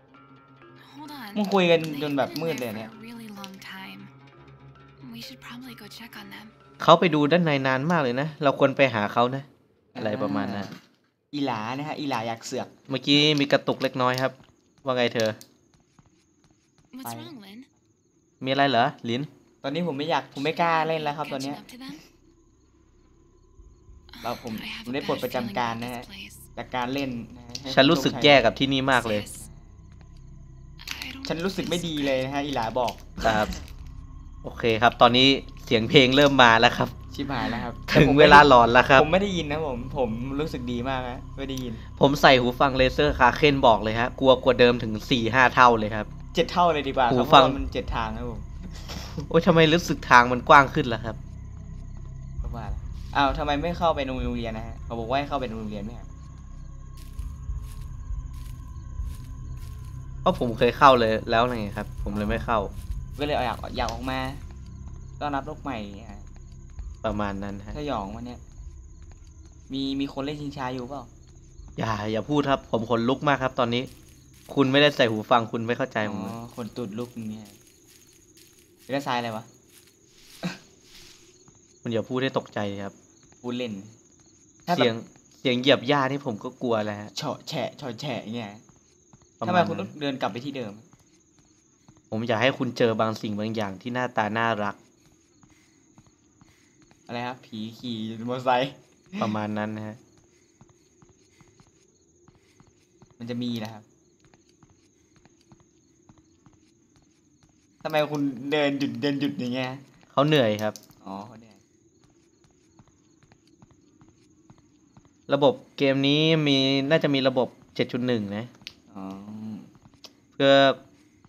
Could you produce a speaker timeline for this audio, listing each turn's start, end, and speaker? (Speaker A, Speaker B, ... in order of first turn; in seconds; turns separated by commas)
Speaker A: 0.8-4.1, Speaker B: 1.4-2.9, Speaker A: 5.0-6.5, Speaker C: 6.8-9.5, Speaker B: 9.9-10.8, Speaker C: 10.0-10.7, Speaker B: 11.3-12.7, Speaker C: 12.9-15.4, Speaker A: 16.9-17.7, Speaker B: 17.0-17.3, Speaker C: 18.4-19.3, Speaker B: 19.6-21.6, Speaker A: 20.4-22.0, Speaker A: 24.1-26.5, Speaker B: 24.2-28.5, Speaker C: 27.7-29.2, Speaker A: 28.9-29.4, Speaker A: 30.8-32.3, Speaker B: 31.2-33.5, Speaker C: 33.2-33.5, Speaker C: 34.4-37.0, Speaker B: 37.1-41.8, Speaker C: 37.9-39.1, Speaker C: 42.0-46.1, Speaker B: 46.3-48.9, Speaker C: 47.1-47.6, Speaker C: 49.2-51.2, Speaker B: 52.4-56.1, Speaker C: 60.2-62.7, Speaker B: 62.1-62.5, Speaker B: 63.1-64.4, Speaker B: 65.2-66.2, Speaker C: 67.0-67.8, Speaker B: 67.7-68.4, Speaker B: 69.7-71.1, Speaker C: 71.8-73.9, Speaker C: 74.5-76.4, Speaker B: 76.0-77.6, Speaker B: 78.9-79.5, Speaker C: 81.8-83.0, Speaker B: 83.4-84.0, Speaker B: 84.7-84.9, Speaker C: 84.7-87.1, Speaker B: 87.1-88.6, Speaker C: 89.4-89.9, Speaker B: 89.4-90.9, Speaker C: 92.1-94.8, Speaker B: 97.1-99.2, Speaker C: 99.2-100.0, Speaker B: 103.2-103.8, Speaker B: 107.8-109.8, Speaker C: 110.1-110.8, Speaker B: 111.0-111.6, Speaker C: 115.3-118.5, Speaker B: 118.9-119.7, Speaker C: 120.4-120.8